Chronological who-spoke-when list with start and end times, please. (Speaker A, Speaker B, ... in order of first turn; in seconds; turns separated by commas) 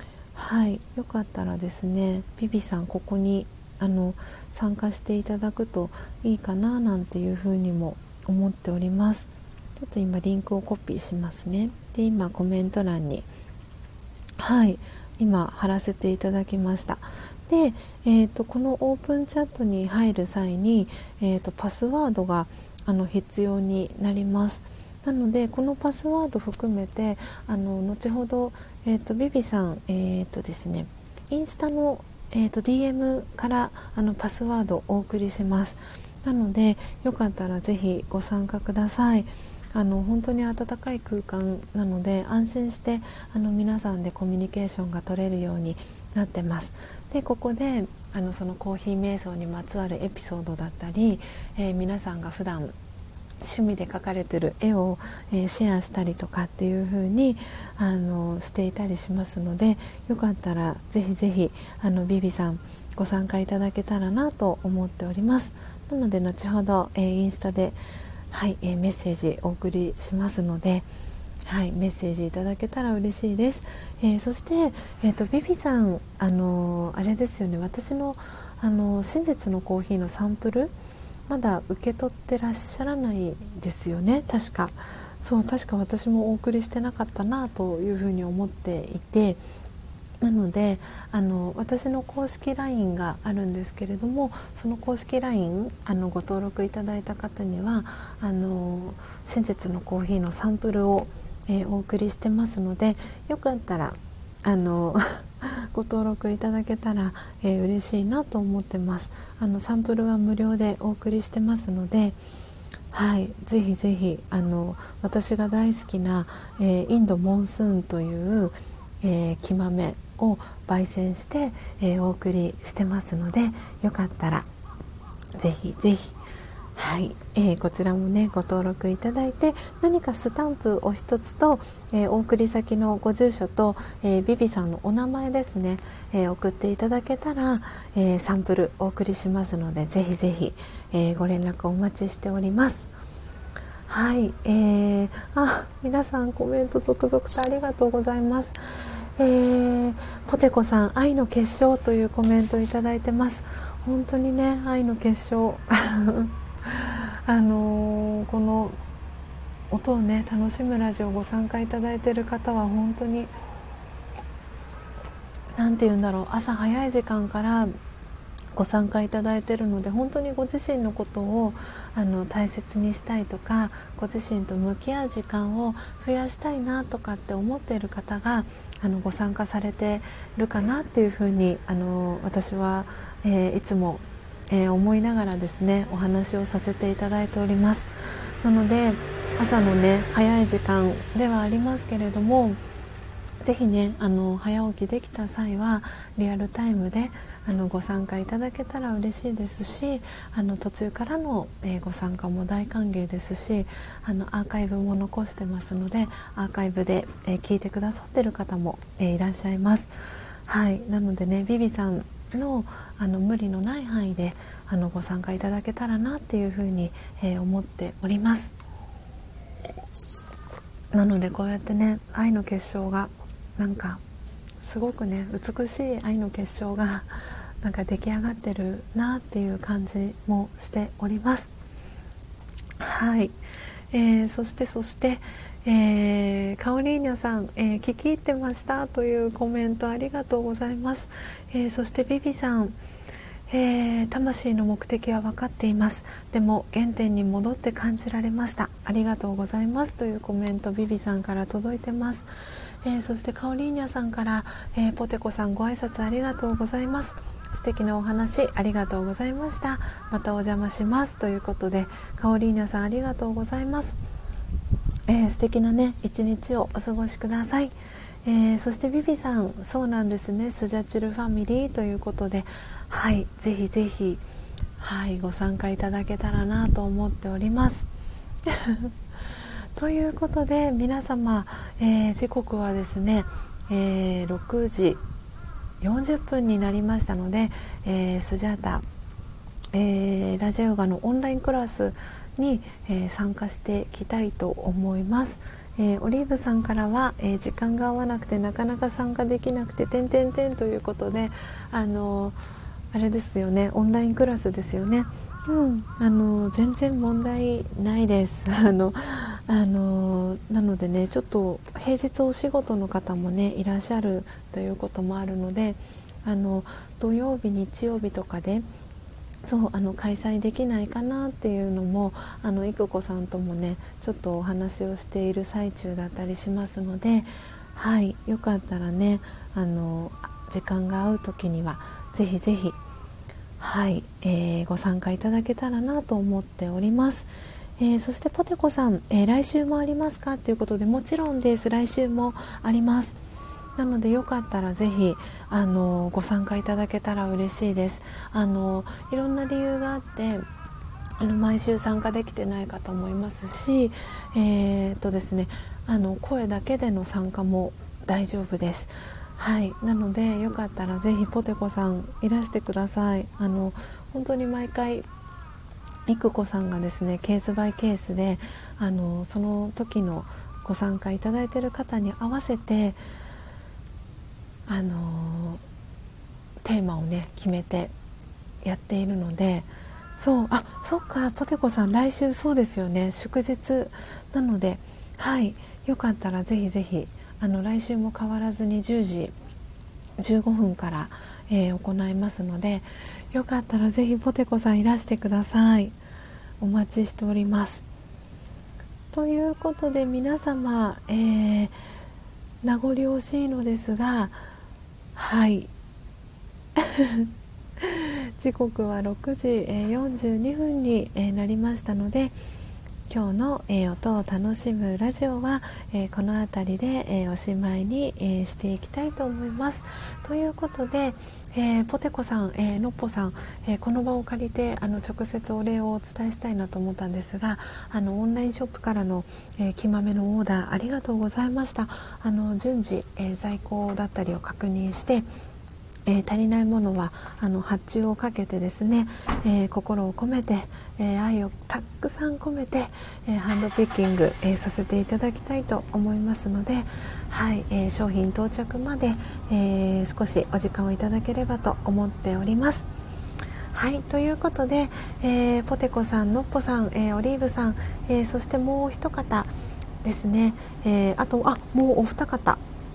Speaker A: 0.3-13.3, Speaker A: 14.4-52.7, Speaker A: 53.4-67.8, Speaker A: 68.3-70.9, Speaker A: 71.5-80.7, Speaker A: 81.3-89.4, Speaker A: 90.2-112.2, Speaker A: 112.9-124.5, Speaker A: 125.3-126.2, Speaker A: 126.8-142.9, Speaker A: 143.9-158.8, Speaker A: 159.7-163.3, Speaker A: 165.6-167.7, Speaker A: 168.5-192.6, Speaker A: 193.4-209.9, Speaker A: 210.5-218.5, Speaker A: 220.9-224.0, Speaker A: 224.6-231.5, Speaker A: 232.8-233.4, Speaker A: 233.9-242.8, Speaker A: 243.5-252.3, Speaker A: 252.8-264.0, Speaker A: 265.1-274.2, Speaker A: 274.8-277.9, Speaker A: 278.4-278.9, Speaker A: 279.8-285.0, Speaker A: 285.8-288.8, Speaker A: 289.7-302.4, Speaker A: 302.9-318.6, Speaker A: 319.4-332.8, Speaker A: 333.6-343.2, Speaker A: 343.8-350.4, Speaker A: 351.2-365.1, Speaker A: 366.1-373.0, Speaker A: 374.7-375.6, Speaker A: 376.6-377.9, Speaker A: 378.6-389.4, Speaker A: 390.2-396.0, Speaker A: 396.6-397.9, Speaker A: 399.1-401.8, Speaker A: 402.6-404.4, Speaker A: 405.2-405.7, Speaker A: 406.8-412.4, Speaker A: 413.1-435.3, Speaker A: 436.1-452.9, Speaker A: 453.7-459.5, Speaker A: 460.0-462.6